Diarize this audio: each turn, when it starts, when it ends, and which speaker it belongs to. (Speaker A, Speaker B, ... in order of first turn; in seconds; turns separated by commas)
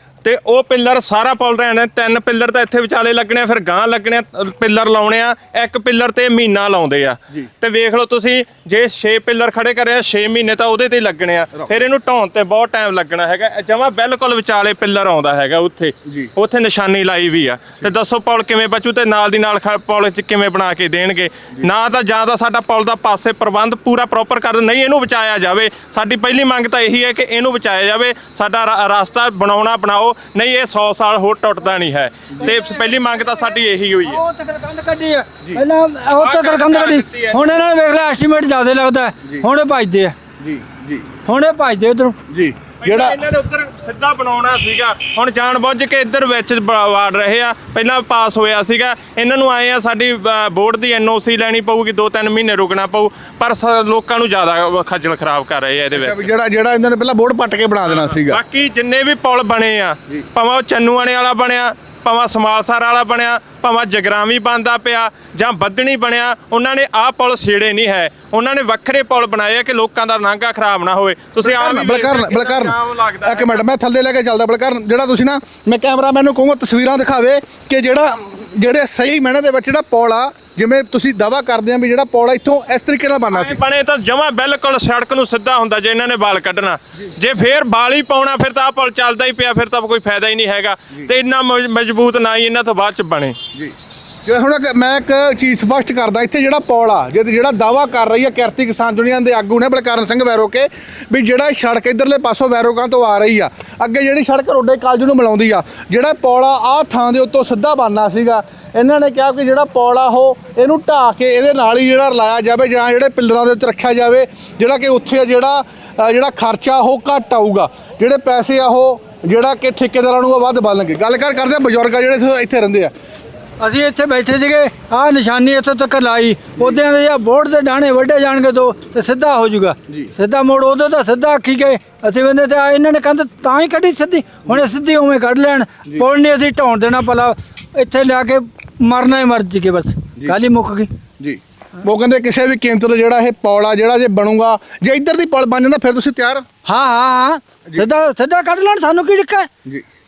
Speaker A: 0.2-34.2, Speaker B: 32.4-40.1, Speaker A: 36.2-37.4, Speaker C: 40.4-41.1, Speaker B: 41.2-42.1, Speaker C: 42.3-43.2, Speaker A: 42.8-56.3, Speaker C: 55.9-58.4, Speaker A: 57.9-73.6, Speaker C: 71.4-83.6, Speaker A: 83.3-93.4, Speaker C: 94.2-122.9, Speaker B: 123.6-140.9, Speaker C: 141.2-146.4, Speaker B: 146.7-149.5